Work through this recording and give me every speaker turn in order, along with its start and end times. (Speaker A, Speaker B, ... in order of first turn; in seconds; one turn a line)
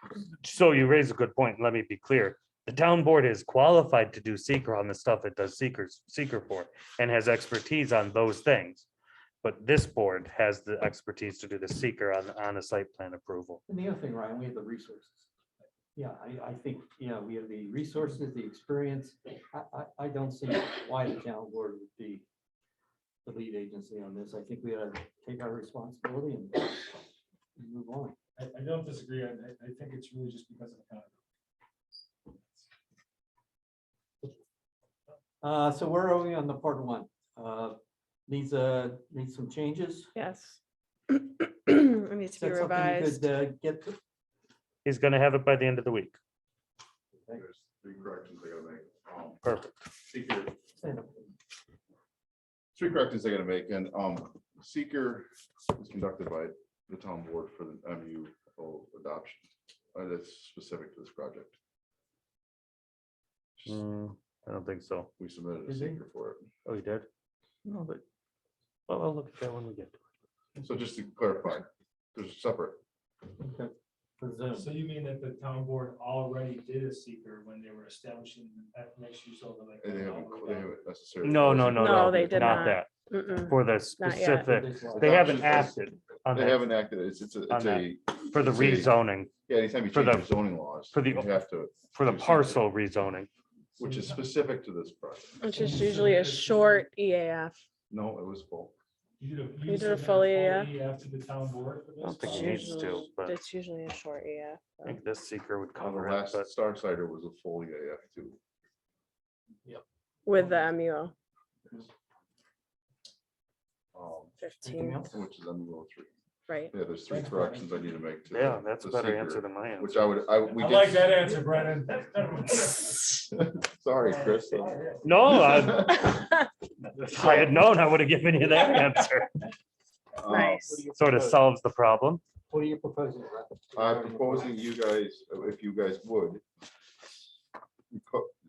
Speaker A: 0.4-8.9
Speaker A: 9.4-13.6
Speaker B: 13.7-15.3
Speaker B: 15.9-22.2
Speaker B: 23.2-27.0
Speaker B: 27.6-28.1
Speaker C: 28.4-31.1
Speaker B: 35.4-37.8
Speaker B: 38.3-40.1
Speaker D: 40.1-43.2
Speaker B: 42.4-44.0
Speaker A: 44.9-46.2
Speaker E: 47.3-49.4
Speaker A: 49.4-49.8
Speaker E: 50.1-50.6
Speaker B: 50.8-51.3
Speaker E: 52.8-61.6
Speaker A: 63.6-65.1
Speaker E: 65.2-66.5
Speaker B: 65.7-66.0
Speaker A: 66.7-67.1
Speaker A: 67.7-68.0
Speaker A: 68.9-70.0
Speaker E: 70.6-72.8
Speaker B: 73.4-74.8
Speaker C: 74.5-80.7
Speaker E: 79.8-82.7
Speaker A: 81.2-82.9
Speaker D: 81.8-84.5
Speaker A: 83.5-86.7
Speaker B: 84.4-85.4
Speaker E: 85.0-85.8
Speaker E: 86.3-92.6
Speaker A: 87.5-89.3
Speaker A: 89.9-90.3
Speaker A: 90.9-91.4
Speaker A: 91.9-93.3
Speaker E: 93.8-95.5
Speaker C: 93.8-94.2
Speaker D: 95.4-97.5
Speaker C: 95.5-96.9
Speaker E: 97.9-98.8
Speaker C: 99.2-103.1
Speaker D: 99.7-100.7
Speaker A: 102.0-103.3
Speaker D: 102.2-105.0
Speaker A: 104.8-106.5
Speaker E: 105.8-108.4
Speaker D: 110.3-111.1
Speaker C: 110.4-110.6
Speaker E: 113.9-114.4
Speaker D: 114.4-115.0
Speaker B: 114.6-115.2
Speaker E: 115.1-116.1
Speaker D: 116.5-116.7
Speaker E: 116.7-121.2
Speaker C: 117.1-117.8
Speaker A: 118.3-120.1
Speaker C: 120.5-123.1
Speaker E: 123.3-126.2
Speaker C: 124.0-125.7
Speaker A: 125.0-126.1
Speaker A: 127.0-129.4
Speaker E: 127.1-127.5
Speaker E: 130.2-130.8
Speaker D: 130.3-130.8
Speaker B: 130.6-131.4
Speaker A: 130.9-132.2
Speaker B: 132.5-134.5
Speaker E: 133.8-136.4
Speaker E: 137.9-138.3